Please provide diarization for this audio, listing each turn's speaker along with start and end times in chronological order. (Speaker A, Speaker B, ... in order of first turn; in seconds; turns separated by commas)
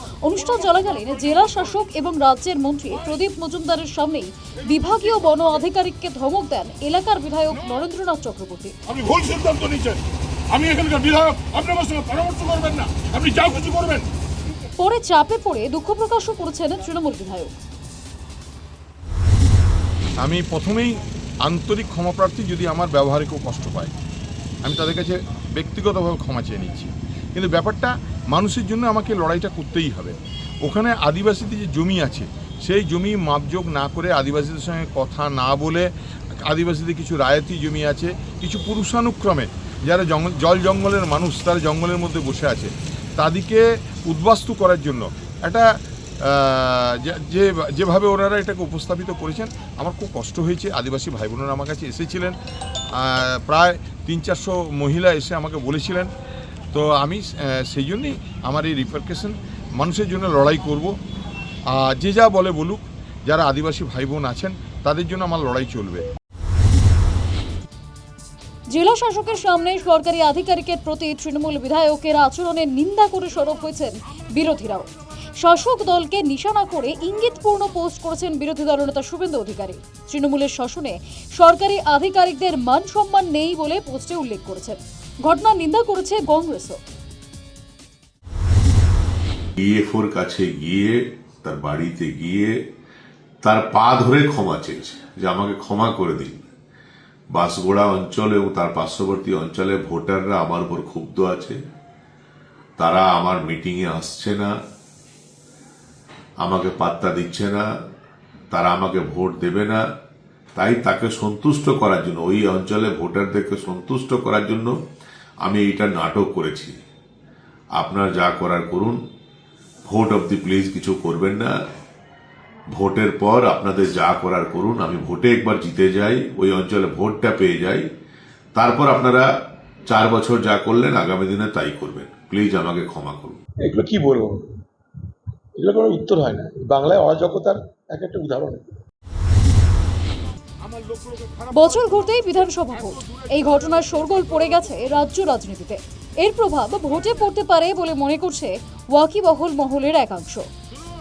Speaker A: 0.2-8.8, Speaker B: 8.9-14.1, Speaker A: 14.8-17.6, Speaker C: 20.2-23.9, Speaker C: 24.6-52.4, Speaker C: 53.0-56.1, Speaker C: 56.7-60.9, Speaker C: 61.7-66.1, Speaker A: 68.7-86.8, Speaker D: 89.6-92.6, Speaker D: 93.4-96.5, Speaker D: 97.3-101.6, Speaker D: 102.8-104.5, Speaker D: 106.4-107.7, Speaker D: 108.5-109.8, Speaker D: 110.6-114.8, Speaker D: 115.4-116.8, Speaker D: 117.8-119.0, Speaker D: 119.9-121.5, Speaker D: 122.7-127.9, Speaker D: 128.6-129.3, Speaker D: 129.9-133.4, Speaker E: 133.6-134.5, Speaker E: 135.6-138.7, Speaker B: 140.7-141.4, Speaker A: 141.5-150.5